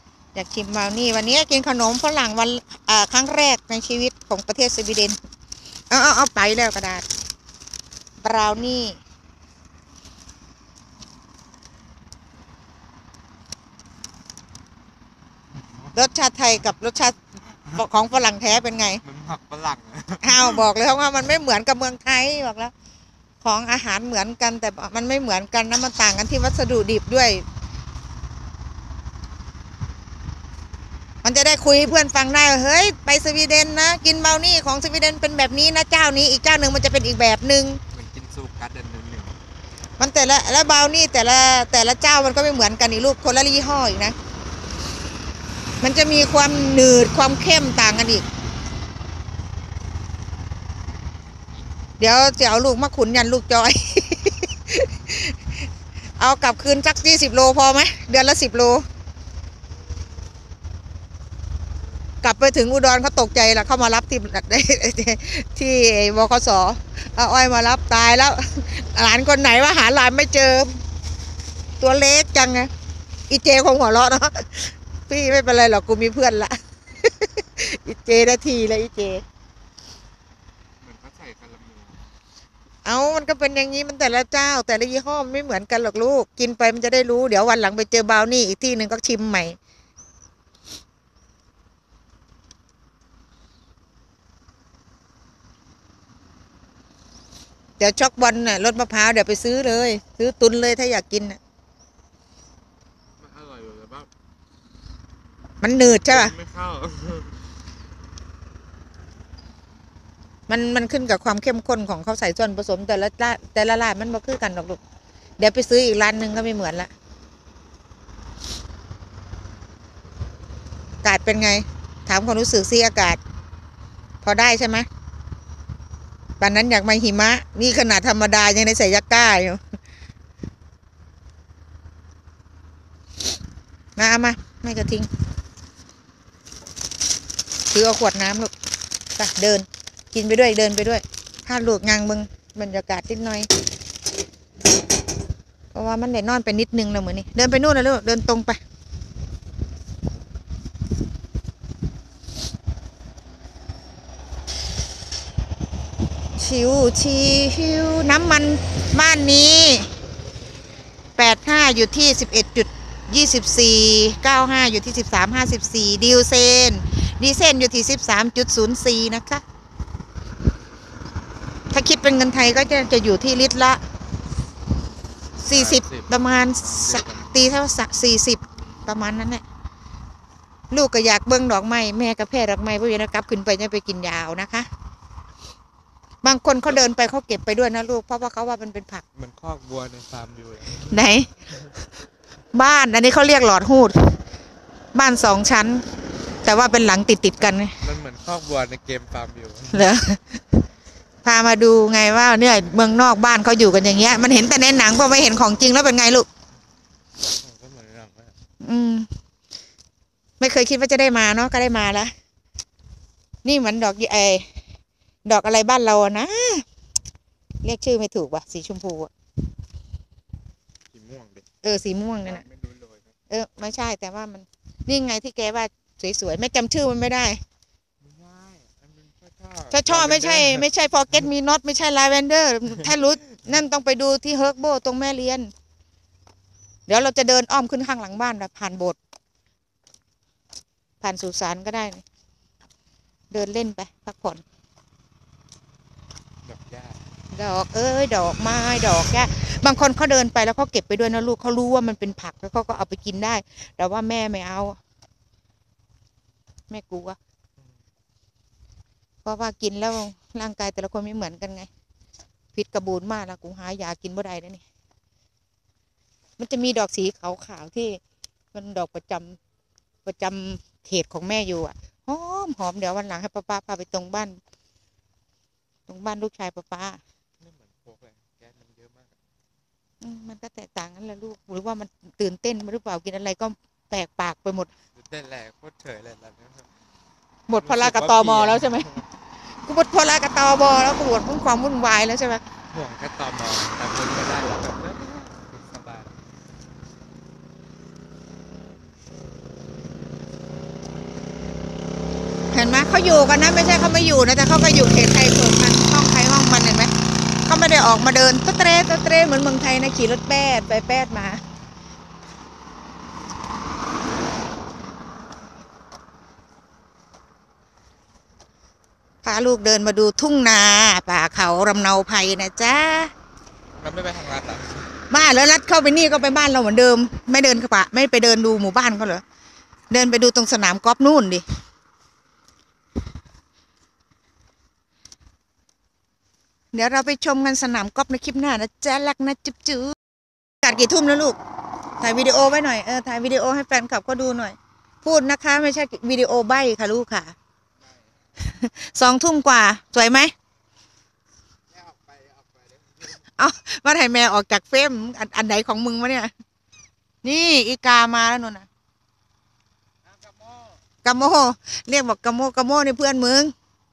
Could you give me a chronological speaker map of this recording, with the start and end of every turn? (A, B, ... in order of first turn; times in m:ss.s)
0:00.3-0:05.2 A
0:05.9-0:07.1 A
0:08.2-0:09.0 A
0:15.9-0:17.2 A
0:17.7-0:19.0 A
0:19.0-0:20.7 B
0:20.2-0:22.7 A
0:23.4-0:27.4 A
0:31.2-0:37.8 A
0:37.9-0:39.4 B
0:40.0-0:44.2 A
0:45.8-0:48.2 A
0:52.0-0:55.5 A
0:56.2-0:58.9 A
1:02.2-1:10.8 A
1:11.8-1:12.7 A
1:13.3-1:19.2 A
1:20.8-1:22.0 B
1:22.8-1:29.6 A
1:37.8-1:41.4 A
1:43.2-1:44.1 B
1:45.6-1:46.3 A
1:46.1-1:47.4 B
1:50.5-1:54.8 A
1:55.4-1:56.9 A
2:01.0-2:03.2 A
2:04.2-2:04.9 A
2:06.4-2:09.6 A
2:14.0-2:15.1 A
2:17.7-2:18.5 A
2:19.2-2:23.5 A
2:25.7-2:28.6 A
2:36.4-2:39.9 A
2:41.2-2:49.4 A
2:51.7-2:53.8 A
2:55.4-2:56.1 B
2:55.4-2:59.4 A
2:56.6-2:57.2 B
3:00.7-3:04.7 A
3:06.2-3:09.0 A
3:09.2-3:11.0 B
3:10.8-3:11.3 A
3:12.5-3:14.2 A
3:14.9-3:15.8 A
3:16.4-3:17.8 A
3:17.7-3:19.9 B
3:19.7-3:20.4 A
3:21.2-3:26.3 A
3:27.4-3:28.4 B
3:28.6-3:29.1 A
3:30.4-3:32.1 A
3:33.4-3:34.6 A
3:35.3-3:36.6 A
3:37.6-3:39.1 A
3:40.9-3:41.4 B
3:41.6-3:42.4 A
3:42.2-3:43.1 B
3:43.3-3:47.4 A
3:48.0-3:50.7 B
3:49.7-3:55.5 A
3:56.9-3:59.0 A
4:01.0-4:02.0 A
4:03.3-4:04.4 A
4:06.4-4:07.0 B
4:07.3-4:14.8 A
4:16.7-4:17.2 A
4:19.2-4:21.7 A
4:22.5-4:24.6 A
4:26.4-4:28.0 A
4:28.5-4:29.4 A
4:30.0-4:34.4 A
4:35.9-4:37.0 A
4:37.4-4:39.2 B
4:40.0-4:44.7 A
4:45.0-4:46.7 B
4:47.5-4:48.9 A
4:47.6-4:49.1 B
4:49.7-4:52.4 A
4:52.7-4:56.1 B
5:02.5-5:11.4 A
5:19.2-5:23.1 A
5:23.8-5:24.9 B
5:25.1-5:29.2 A
5:29.9-5:31.4 A
5:36.7-5:40.0 A
5:40.6-5:41.4 A
5:42.0-5:47.4 A
5:48.4-5:50.3 A
5:51.8-5:52.8 B
5:53.4-5:56.3 A
5:57.2-5:58.7 A
6:01.0-6:03.5 A